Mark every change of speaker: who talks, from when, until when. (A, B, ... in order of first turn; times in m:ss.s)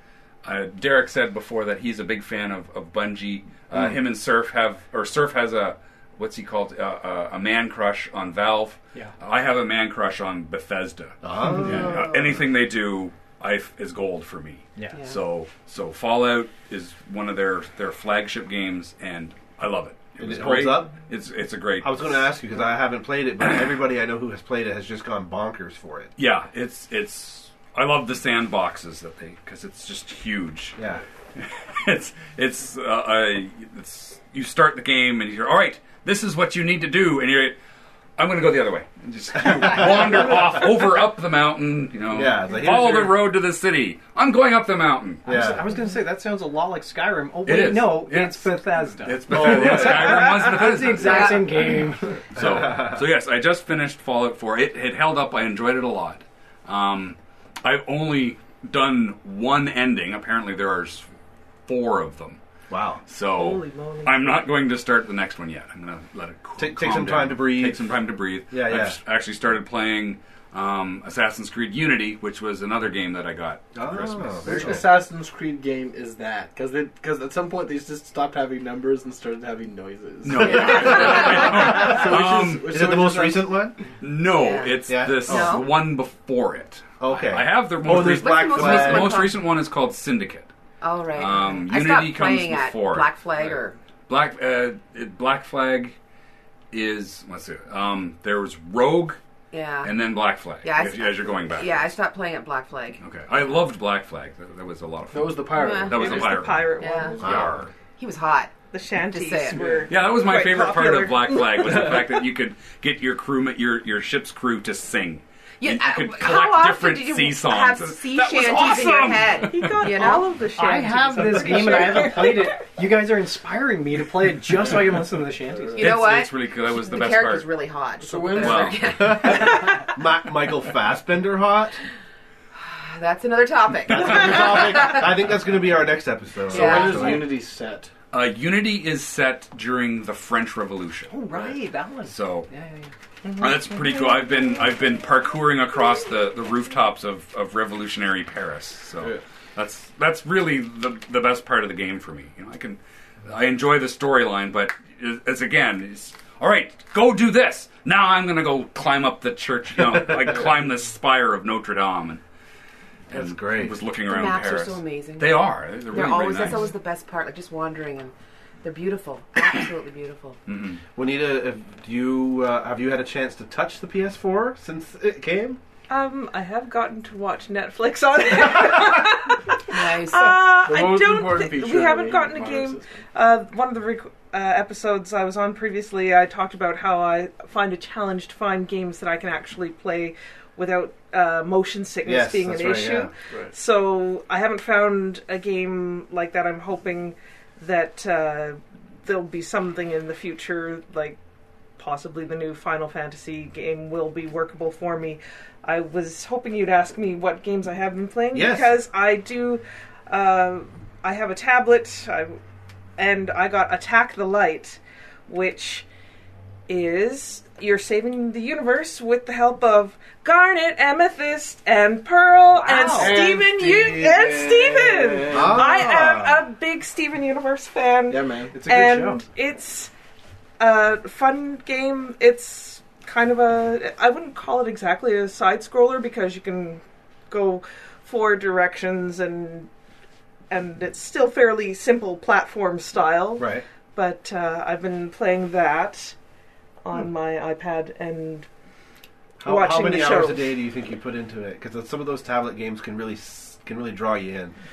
0:00.4-0:22.2 A
0:11.2-0:12.1 B
0:14.9-0:15.2 C
0:20.2-0:21.0 B
0:21.8-0:26.1 B
0:26.2-0:30.8 A
0:30.8-0:31.0 B
0:31.4-0:37.6 A
0:38.2-0:45.3 A
0:42.1-0:43.3 B
0:45.2-0:52.2 D
0:45.3-0:45.6 B
0:47.5-0:48.5 A
0:49.0-0:51.6 A
0:49.3-0:49.9 B
0:51.0-0:51.7 C
0:52.4-1:01.1 A
0:52.4-0:53.0 B
1:01.7-1:02.4 A
1:02.7-1:03.0 B
1:03.1-1:14.8 A
1:03.3-1:04.5 E
1:06.6-1:07.9 B
1:08.5-1:09.0 B
1:13.8-1:14.9 B
1:14.4-1:23.5 F
1:20.2-1:22.8 A
1:22.0-1:23.8 B
1:24.0-1:30.5 A
1:24.3-1:25.8 C
1:24.9-1:25.6 B
1:27.0-1:29.2 B
1:27.9-1:29.4 C
1:30.8-1:33.8 C
1:31.1-1:33.2 A
1:34.1-1:36.0 A
1:36.7-1:39.2 A
1:39.5-1:43.0 C
1:39.8-1:41.9 A
1:43.0-1:47.7 A
1:45.1-1:46.5 F
1:45.5-1:47.4 C
1:45.9-1:47.3 E
1:47.2-1:47.5 B
1:48.0-1:49.8 C
1:48.7-1:52.0 E
1:49.5-1:50.1 F
1:49.9-1:59.8 A
1:55.6-2:00.3 C
1:58.2-2:02.5 E
2:00.6-2:05.8 D
2:01.5-2:01.8 C
2:05.4-2:05.9 F
2:05.8-2:07.5 A
2:05.8-2:09.9 C
2:08.0-2:09.4 F
2:08.4-2:09.2 A
2:09.0-2:11.8 B
2:12.6-2:15.1 C
2:13.9-2:17.3 B
2:16.5-2:17.3 C
2:16.5-2:17.9 F
2:18.1-2:21.5 A
2:21.1-2:22.9 D
2:22.1-2:22.5 A
2:23.4-2:42.2 A
2:43.1-2:46.8 A
2:43.1-2:43.8 B
2:44.0-2:50.4 C
2:50.5-2:50.8 A
2:51.0-2:55.6 B
2:55.9-3:21.2 E
2:59.7-3:00.6 C
3:00.6-3:03.0 F
3:12.0-3:13.1 B
3:21.8-3:32.4 E
3:28.3-3:28.7 B
3:33.0-3:35.8 E
3:36.7-3:49.9 E
3:42.5-3:43.2 D
3:42.9-3:45.7 F
3:45.3-3:46.4 B
3:48.1-3:48.6 F
3:48.5-3:49.2 D
3:50.6-3:59.7 E
4:00.5-4:06.2 E
4:03.4-4:03.6 B
4:06.8-4:08.5 E
4:09.4-4:14.6 B
4:09.4-4:10.5 E